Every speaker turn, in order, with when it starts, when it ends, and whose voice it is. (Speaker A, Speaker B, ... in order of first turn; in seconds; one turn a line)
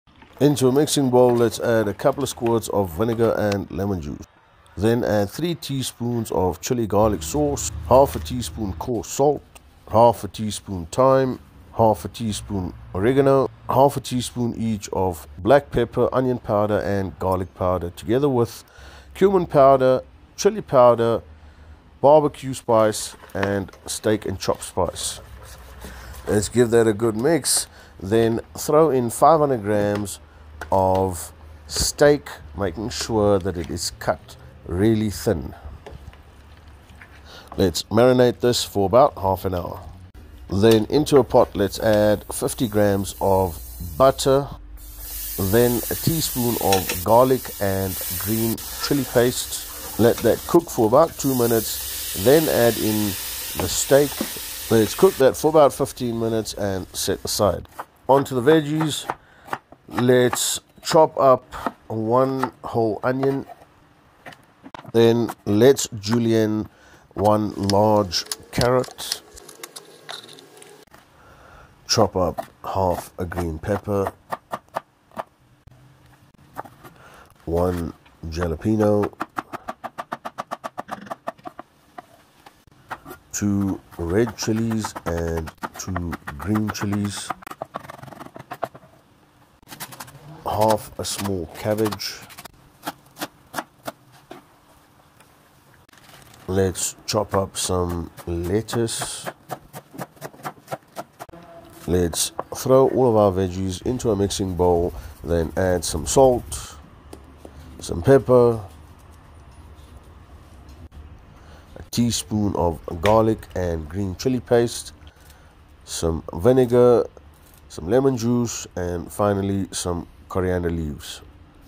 Speaker A: 0.4-21.2
Speaker A: 22.0-25.2
Speaker A: 26.2-30.2
Speaker A: 30.7-35.6
Speaker A: 37.5-39.9
Speaker A: 40.5-44.5
Speaker A: 45.4-59.1
Speaker A: 59.9-63.5
Speaker A: 64.9-69.2
Speaker A: 71.9-74.1
Speaker A: 77.5-79.1
Speaker A: 83.3-87.3
Speaker A: 90.5-92.3
Speaker A: 96.5-99.3
Speaker A: 101.9-106.8
Speaker A: 107.8-108.7
Speaker A: 111.8-115.0
Speaker A: 115.8-117.1
Speaker A: 117.7-121.2